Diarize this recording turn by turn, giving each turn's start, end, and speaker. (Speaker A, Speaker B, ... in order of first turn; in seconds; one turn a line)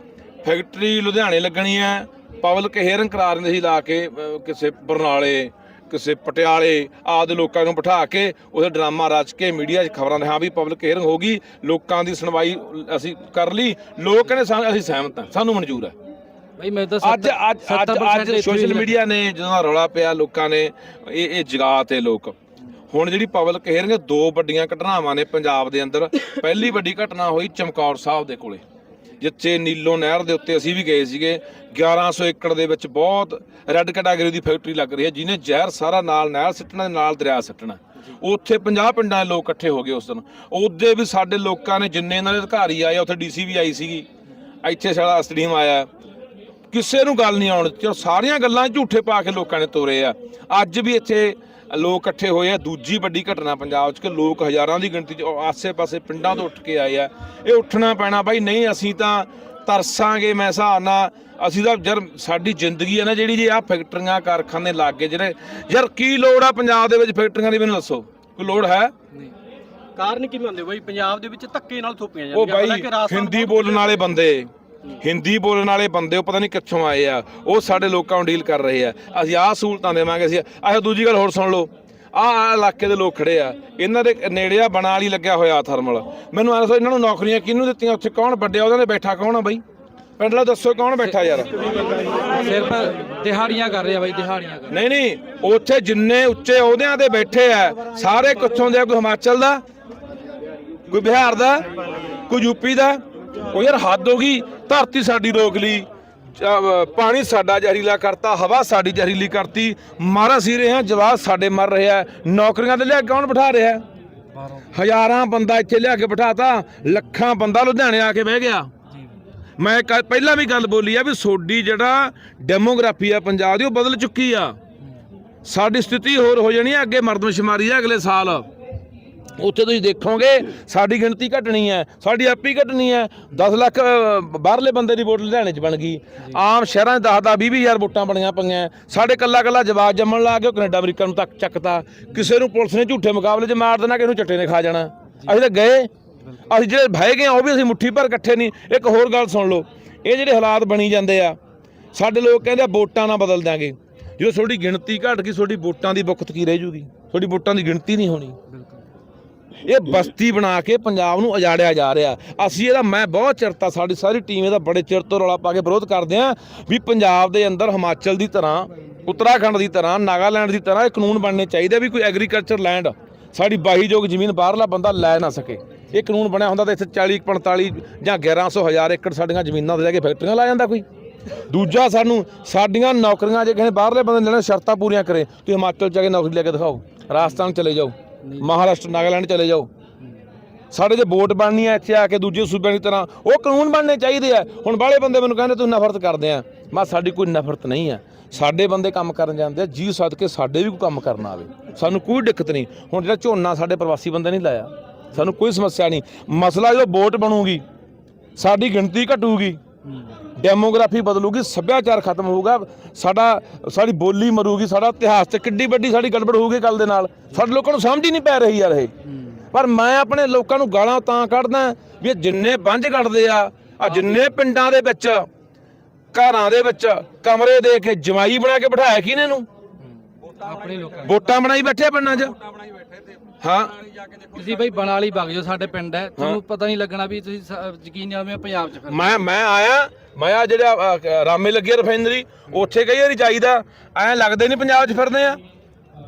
Speaker A: 0.4-15.9
Speaker B: 16.6-19.0
Speaker A: 17.0-22.3
Speaker A: 22.9-28.6
Speaker A: 29.2-44.0
Speaker A: 44.6-45.9
Speaker A: 46.7-68.9
Speaker C: 70.0-74.0
Speaker A: 72.3-89.6
Speaker A: 90.2-91.5
Speaker B: 92.2-94.7
Speaker A: 94.7-99.6
Speaker A: 100.9-101.7
Speaker A: 102.2-113.8
Speaker B: 114.3-114.7
Speaker A: 114.7-118.7
Speaker A: 119.6-124.6
Speaker A: 125.5-128.5
Speaker A: 129.4-145.9
Speaker A: 146.4-151.4
Speaker A: 151.9-158.4
Speaker B: 158.5-158.8
Speaker A: 159.6-189.7
Speaker B: 188.2-188.5
Speaker A: 190.7-207.6
Speaker A: 208.4-209.6
Speaker A: 210.3-218.9
Speaker B: 219.1-219.4
Speaker A: 219.5-225.3
Speaker A: 226.1-229.5
Speaker B: 230.2-231.1
Speaker A: 231.0-232.3
Speaker A: 233.4-233.8
Speaker B: 234.1-239.2
Speaker A: 238.9-245.4